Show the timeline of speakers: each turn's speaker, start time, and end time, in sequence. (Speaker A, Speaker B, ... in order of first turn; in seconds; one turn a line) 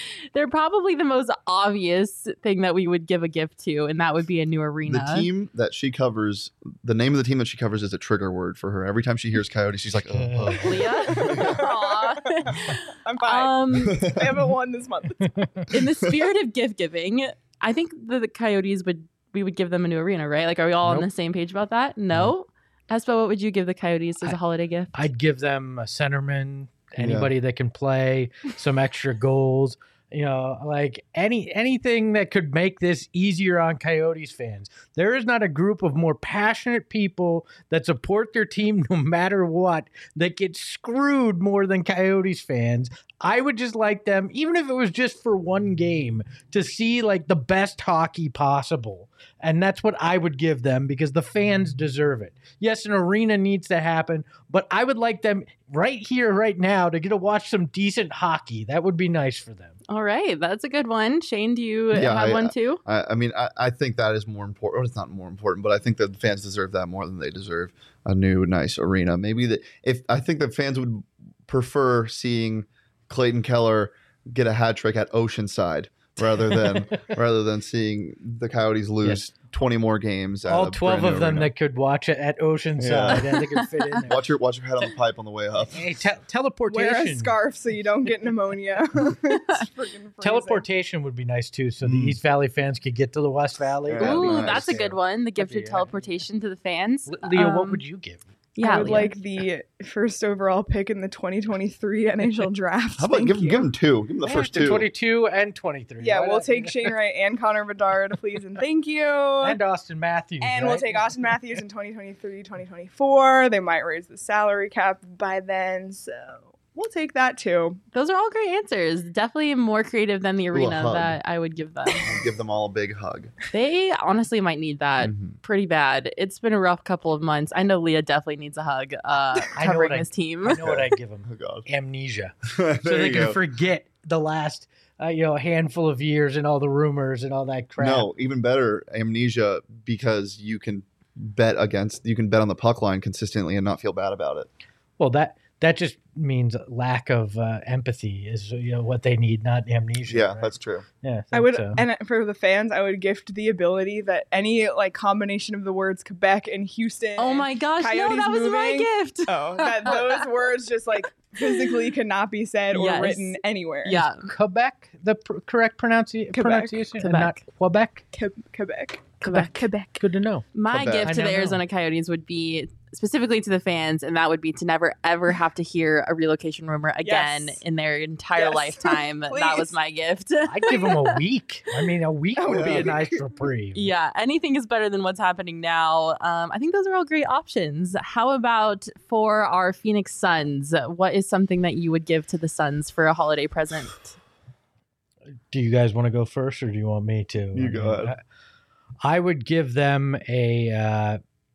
Speaker A: 0.3-5.3
Speaker B: 4.9-11.6
Speaker C: 10.1-10.8
Speaker A: 10.6-14.0
Speaker D: 11.2-15.8
Speaker B: 13.7-14.3
Speaker C: 15.2-15.5
Speaker A: 15.7-25.1
Speaker C: 24.9-59.8
Speaker B: 27.0-27.3
Speaker A: 59.9-62.8
Speaker B: 61.9-81.5
Speaker C: 80.5-84.2
Speaker B: 82.8-83.4
Speaker B: 84.0-85.8
Speaker C: 85.7-87.3
Speaker D: 86.7-90.6
Speaker C: 90.2-95.9
Speaker B: 91.8-92.2
Speaker B: 93.8-94.7
Speaker A: 94.0-97.8
Speaker C: 97.1-98.2
Speaker A: 98.6-99.1
Speaker D: 98.6-103.6
Speaker B: 103.0-104.9
Speaker C: 104.2-106.9
Speaker D: 106.0-109.6
Speaker C: 109.4-111.3
Speaker D: 110.4-117.8
Speaker A: 117.9-122.1
Speaker B: 120.5-121.2
Speaker B: 122.0-123.3
Speaker A: 123.5-130.6
Speaker B: 125.0-125.3
Speaker C: 129.6-138.1
Speaker B: 130.5-131.7
Speaker B: 132.4-133.4
Speaker B: 137.8-144.5
Speaker C: 145.0-151.8
Speaker B: 150.1-150.8
Speaker D: 151.3-164.1
Speaker A: 157.2-160.3
Speaker A: 161.4-161.8
Speaker A: 162.7-164.3
Speaker C: 164.2-168.0
Speaker D: 166.3-166.8
Speaker A: 167.0-167.4
Speaker D: 168.1-170.0
Speaker A: 169.2-169.7
Speaker C: 169.2-170.5
Speaker A: 170.5-181.2
Speaker B: 170.7-171.1
Speaker C: 171.0-171.6
Speaker D: 177.0-177.6
Speaker D: 178.3-179.7
Speaker C: 180.4-183.9
Speaker D: 182.4-183.2
Speaker B: 182.5-182.9
Speaker A: 183.7-194.2
Speaker C: 195.5-198.2
Speaker B: 197.5-198.1
Speaker C: 199.0-201.2